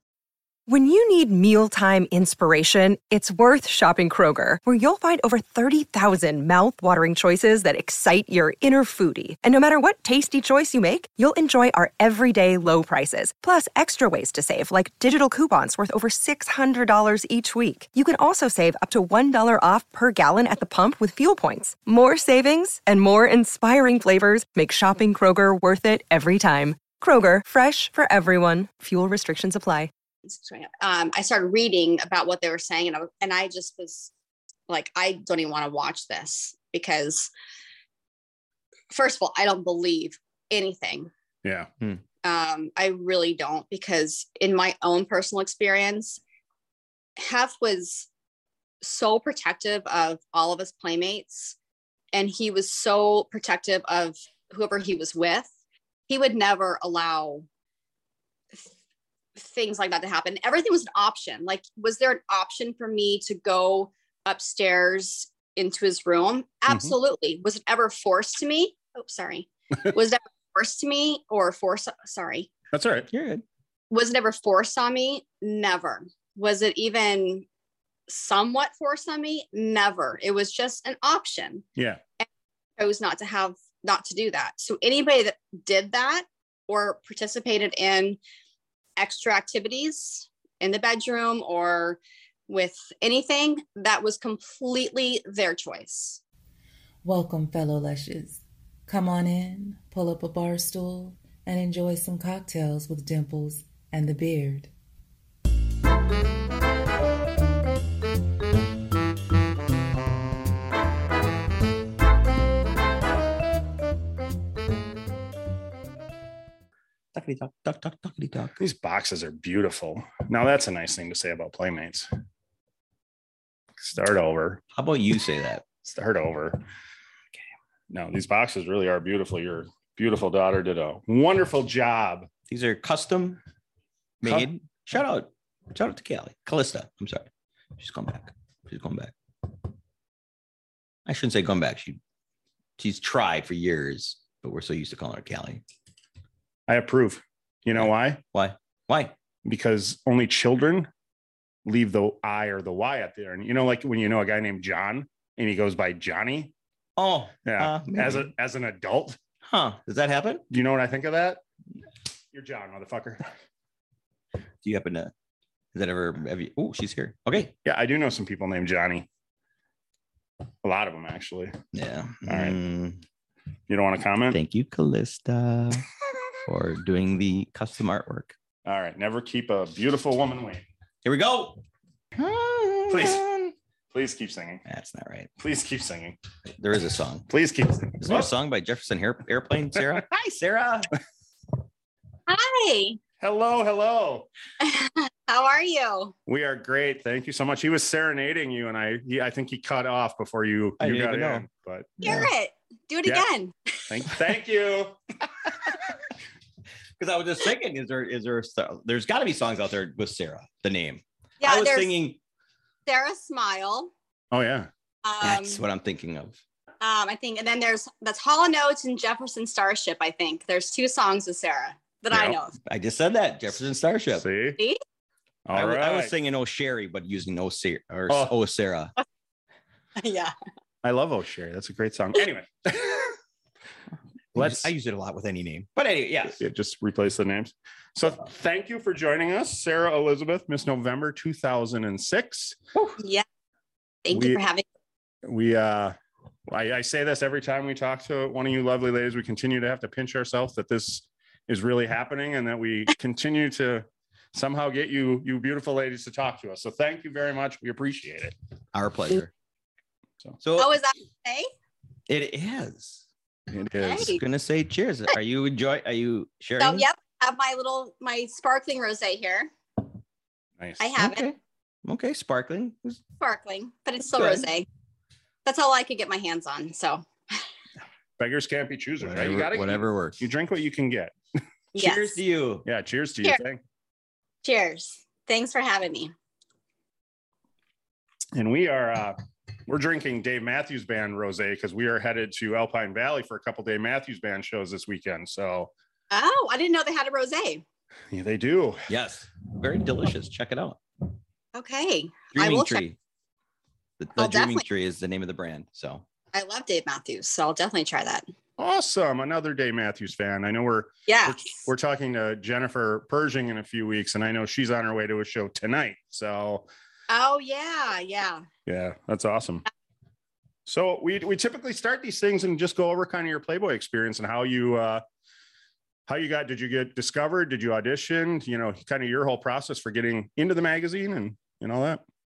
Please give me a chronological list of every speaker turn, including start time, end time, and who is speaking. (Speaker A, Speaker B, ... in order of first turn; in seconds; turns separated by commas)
Speaker A: 0.7-29.9, Speaker B: 30.3-34.1, Speaker B: 34.7-37.3, Speaker B: 38.9-41.1, Speaker C: 41.4-41.7, Speaker B: 42.2-46.2, Speaker B: 47.2-48.1, Speaker B: 48.8-51.5, Speaker B: 52.1-55.5, Speaker B: 56.1-57.5, Speaker B: 59.4-72.5, Speaker C: 72.7-73.1, Speaker D: 73.1-73.4, Speaker B: 73.9-77.5, Speaker B: 78.1-81.6, Speaker B: 82.8-88.2, Speaker B: 89.0-96.2, Speaker E: 97.0-104.7, Speaker D: 117.1-118.6, Speaker C: 118.6-122.1, Speaker C: 123.8-124.6, Speaker D: 124.7-125.6, Speaker C: 125.8-126.6, Speaker C: 127.9-132.3, Speaker D: 132.5-133.4, Speaker D: 134.2-139.1, Speaker D: 141.1-142.0, Speaker D: 142.8-145.6, Speaker C: 146.7-148.2, Speaker D: 147.8-149.1, Speaker C: 149.4-150.9, Speaker C: 151.7-156.5, Speaker D: 157.0-158.3, Speaker C: 157.4-159.2, Speaker D: 159.4-160.4, Speaker C: 160.5-161.4, Speaker C: 162.3-163.2, Speaker D: 164.6-165.1, Speaker D: 165.7-167.5, Speaker C: 167.6-169.1, Speaker C: 170.6-171.5, Speaker D: 171.7-173.0, Speaker C: 172.2-172.6, Speaker C: 173.7-174.4, Speaker D: 174.3-175.9, Speaker D: 176.4-178.3, Speaker C: 178.6-180.6, Speaker D: 181.0-183.5, Speaker C: 182.9-183.2, Speaker C: 183.9-184.6, Speaker D: 184.7-185.3, Speaker C: 185.4-186.2, Speaker D: 186.6-187.3, Speaker C: 187.3-188.3, Speaker D: 188.0-190.9, Speaker B: 192.3-193.0, Speaker C: 193.2-194.3, Speaker B: 194.6-196.1, Speaker C: 196.3-202.2, Speaker D: 200.8-201.4, Speaker B: 202.0-203.8, Speaker C: 203.9-205.0, Speaker D: 207.0-212.2, Speaker B: 211.4-211.9, Speaker B: 212.9-213.9, Speaker C: 214.3-214.7, Speaker B: 215.0-215.6, Speaker D: 215.2-216.4, Speaker B: 216.8-222.5, Speaker C: 222.1-222.4, Speaker D: 222.6-224.2, Speaker C: 224.1-224.6, Speaker C: 225.4-226.1, Speaker D: 225.5-228.9, Speaker B: 230.0-230.3, Speaker C: 230.8-233.1, Speaker C: 234.3-234.7, Speaker D: 234.3-236.4, Speaker C: 236.4-242.6, Speaker B: 243.0-243.2, Speaker B: 244.0-244.6, Speaker C: 244.1-244.4, Speaker C: 245.2-245.9, Speaker C: 246.5-258.3, Speaker D: 258.7-259.3, Speaker D: 260.4-260.7, Speaker B: 260.6-261.5, Speaker D: 262.1-263.0, Speaker C: 263.5-264.1, Speaker B: 263.8-264.2, Speaker D: 263.9-266.9, Speaker B: 266.6-269.5, Speaker B: 270.8-271.2, Speaker D: 270.9-273.0, Speaker B: 273.2-274.6, Speaker D: 274.1-274.4, Speaker B: 275.4-277.0, Speaker C: 278.2-281.1, Speaker D: 279.0-280.2, Speaker B: 281.7-282.2, Speaker D: 281.8-282.6, Speaker C: 282.6-283.6, Speaker B: 284.4-286.1, Speaker C: 288.3-289.2, Speaker C: 289.7-295.7, Speaker B: 296.1-297.6, Speaker C: 298.1-298.8, Speaker D: 298.9-300.8, Speaker B: 301.5-302.8, Speaker D: 302.3-303.0, Speaker D: 304.0-306.0, Speaker B: 304.2-304.6, Speaker B: 306.3-308.3, Speaker C: 308.6-316.7, Speaker B: 311.1-311.4, Speaker B: 317.1-318.4, Speaker C: 318.7-319.6, Speaker C: 320.7-325.0, Speaker C: 326.1-332.0